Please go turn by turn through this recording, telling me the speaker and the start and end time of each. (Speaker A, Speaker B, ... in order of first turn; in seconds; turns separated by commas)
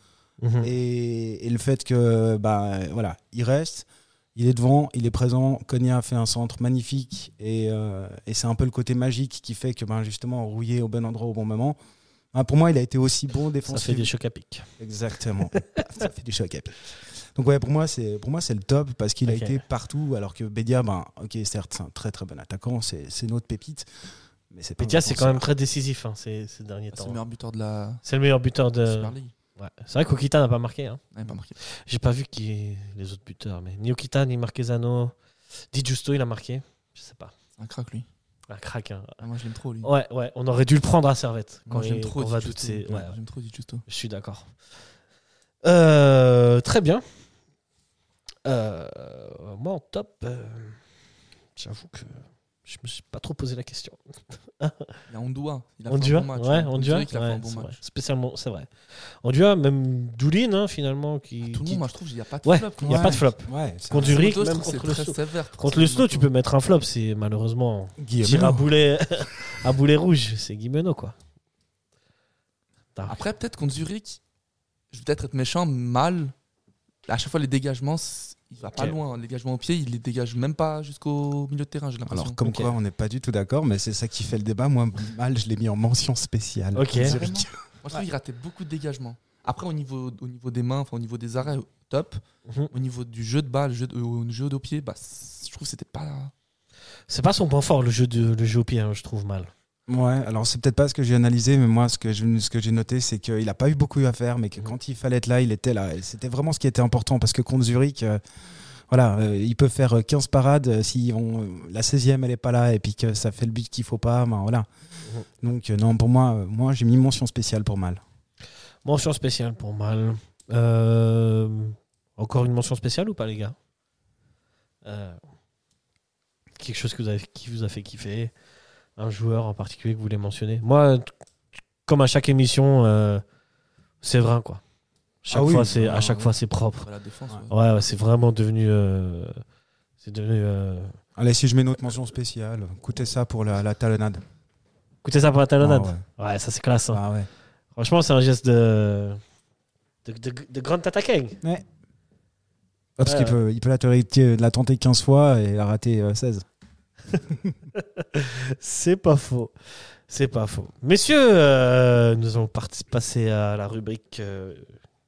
Speaker A: 0.4-0.7, Speaker B: 0.6-11.8, Speaker B: 12.3-14.1, Speaker A: 13.7-14.7, Speaker B: 14.8-23.9, Speaker A: 19.2-19.6, Speaker B: 24.5-25.5, Speaker A: 24.8-27.2, Speaker C: 26.9-28.0, Speaker A: 28.0-31.0, Speaker C: 28.8-29.3, Speaker C: 31.1-31.6, Speaker A: 31.6-35.1, Speaker A: 35.7-37.3, Speaker C: 37.6-38.1, Speaker A: 38.5-39.2, Speaker C: 39.2-39.9, Speaker A: 39.8-43.1, Speaker C: 41.7-43.8, Speaker A: 43.9-44.5, Speaker A: 45.6-47.0, Speaker A: 48.4-50.8, Speaker A: 51.5-54.0, Speaker A: 54.6-54.9, Speaker C: 55.1-57.8, Speaker A: 55.9-58.7, Speaker A: 59.2-61.9, Speaker C: 61.4-63.3, Speaker A: 62.4-71.1, Speaker B: 62.8-64.2, Speaker C: 64.0-66.3, Speaker B: 68.0-68.7, Speaker C: 73.1-74.2, Speaker C: 74.9-76.3, Speaker C: 77.1-82.4, Speaker B: 82.1-88.0, Speaker A: 82.4-82.7, Speaker A: 86.7-87.2, Speaker C: 86.9-96.3, Speaker A: 97.1-99.5, Speaker B: 99.9-108.2, Speaker B: 108.9-114.7, Speaker B: 115.4-118.0, Speaker A: 118.8-123.5, Speaker A: 124.8-125.2, Speaker A: 126.6-128.3, Speaker A: 129.0-131.1, Speaker A: 131.8-133.2, Speaker A: 134.0-134.6, Speaker A: 135.2-136.9, Speaker B: 135.3-136.3, Speaker C: 136.8-137.5, Speaker A: 137.5-139.4, Speaker A: 140.0-140.9, Speaker B: 141.2-144.2, Speaker A: 145.0-147.0, Speaker B: 145.6-146.0, Speaker B: 146.9-147.3, Speaker A: 147.8-149.2, Speaker A: 150.0-151.4, Speaker B: 153.0-156.4, Speaker A: 153.0-153.4, Speaker A: 157.8-159.5, Speaker A: 160.1-164.7